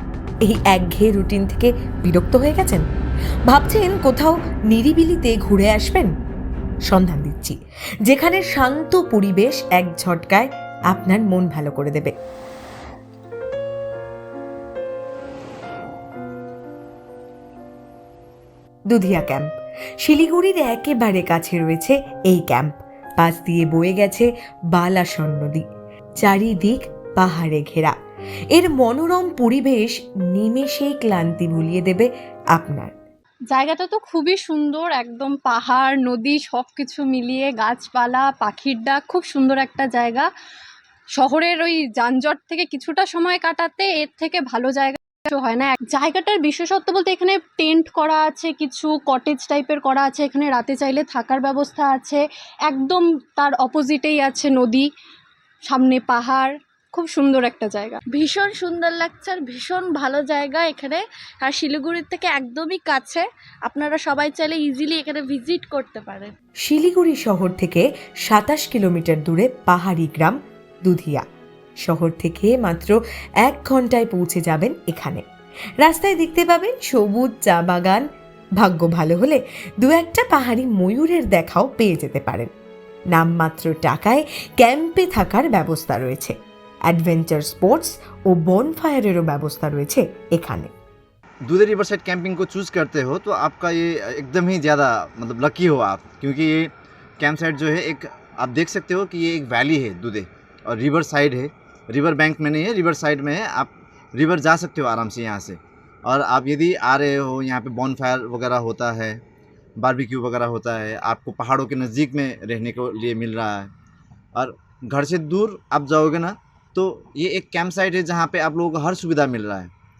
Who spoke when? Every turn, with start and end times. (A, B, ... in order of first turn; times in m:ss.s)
0:00.4-0:02.8 A
0:03.5-0:06.1 A
0:06.9-0:07.6 A
0:08.1-0:12.2 A
0:18.9-0:19.5 A
0:20.0-0:25.6 A
0:26.2-0:28.0 A
0:28.5-0:32.9 A
0:33.5-0:40.3 B
0:41.2-0:54.9 B
0:55.7-0:58.0 B
0:58.1-1:06.3 C
1:06.6-1:11.2 A
1:11.8-1:15.2 A
1:15.8-1:18.0 A
1:18.6-1:22.5 A
1:23.1-1:26.3 A
1:26.9-1:30.7 A
1:31.4-1:49.2 D
1:49.8-1:53.7 D
1:54.4-1:59.7 D